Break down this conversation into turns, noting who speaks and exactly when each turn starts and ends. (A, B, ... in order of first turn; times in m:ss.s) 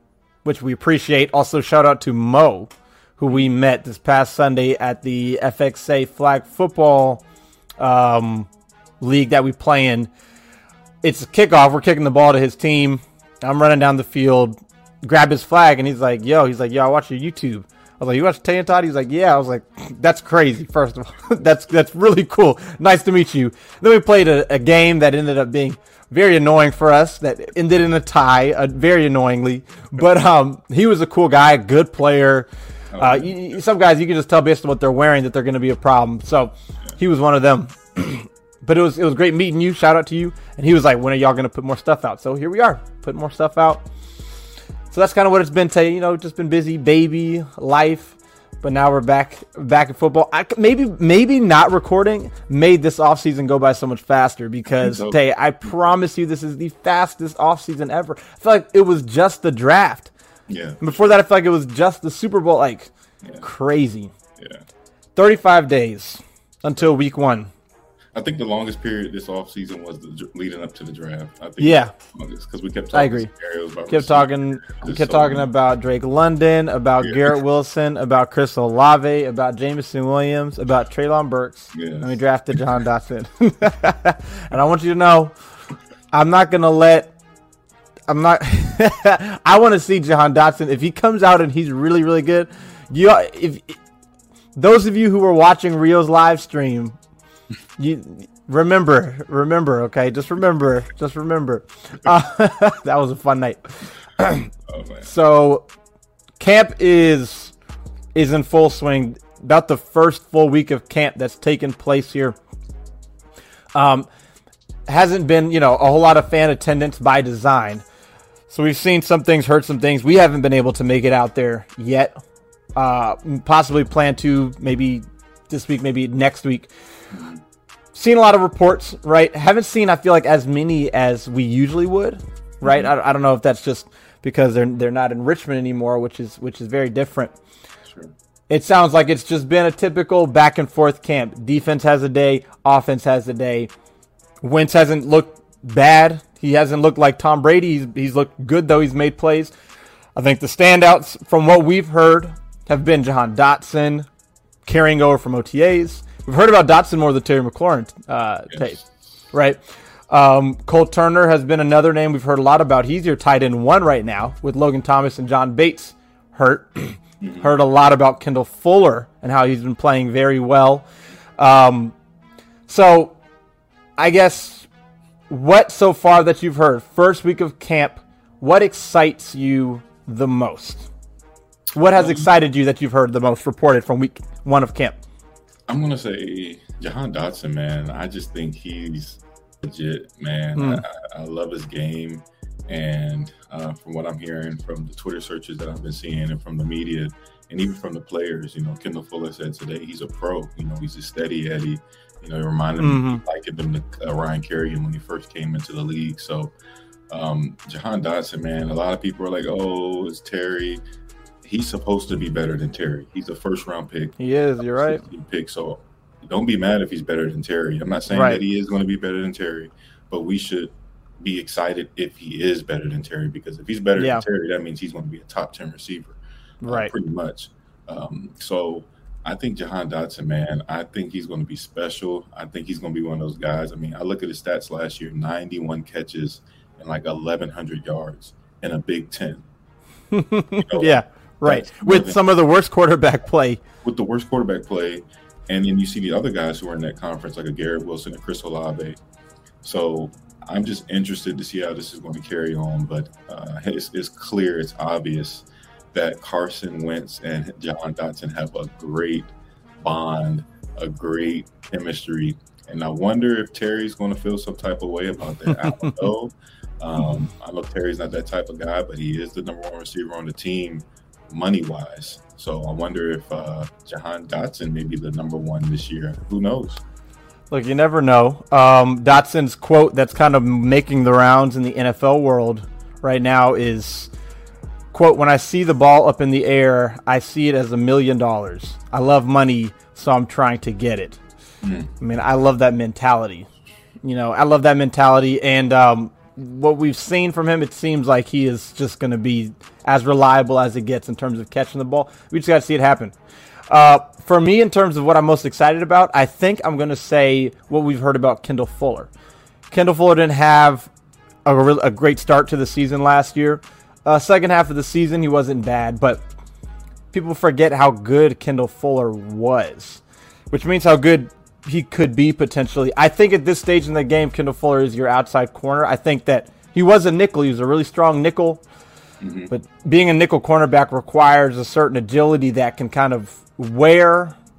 0:00.4-0:07.2 A
0:07.8-0:08.5 A
0:09.0-0:10.1 A
0:11.0-0:43.9 A
0:32.9-0:33.4 B
0:44.9-1:00.1 A
0:54.7-0:55.9 B
1:00.5-1:01.1 B
1:00.8-1:02.9 A
1:03.4-1:04.1 A
1:04.4-1:04.6 B
1:05.2-1:07.5 A
1:08.2-1:15.5 B
1:11.6-1:11.9 A
1:12.9-1:13.3 A
1:13.9-1:25.3 A
1:17.0-1:17.3 B
1:21.7-1:22.6 B
1:26.1-1:27.1 A
1:28.1-1:33.8 A
1:34.6-1:37.0 A
1:37.8-1:44.5 A
1:44.7-1:45.1 B
1:45.0-1:45.7 A
1:46.4-1:47.5 A
1:48.2-1:52.4 A
1:53.8-1:54.1 A
1:54.9-1:57.8 A
1:58.5-2:02.2 A
2:02.8-2:06.7 A
2:07.1-2:07.4 B
2:07.9-2:17.4 A
2:12.6-2:12.9 B
2:18.5-2:23.7 A
2:24.4-2:29.5 A
2:30.2-2:34.1 A
2:34.7-2:38.8 A
2:38.5-2:38.8 B
2:39.3-2:50.9 A
2:47.2-2:47.5 B
2:51.4-2:51.9 A
2:52.7-2:53.2 A
2:54.0-2:54.7 A
2:55.3-3:00.9 A
3:01.8-3:05.0 A
3:02.0-3:02.3 B
3:05.7-3:26.5 B
3:10.6-3:10.8 A
3:22.8-3:23.2 A
3:27.1-3:30.8 B
3:31.4-3:59.4 B
3:34.2-3:35.0 A
3:38.1-3:38.4 A
3:44.0-3:44.2 A
3:46.6-3:46.9 A
4:00.1-4:03.6 A
4:00.6-4:02.2 B
4:03.8-4:09.0 B
4:09.6-4:36.8 B
4:37.5-4:44.1 A
4:44.9-4:51.2 A
4:51.6-4:51.9 B
4:52.0-4:53.5 A
4:54.0-5:03.2 A
5:03.7-5:09.1 A
5:09.7-5:10.9 A
5:11.4-5:16.2 A
5:17.1-5:28.6 A
5:29.2-5:29.5 B
5:29.5-5:34.4 A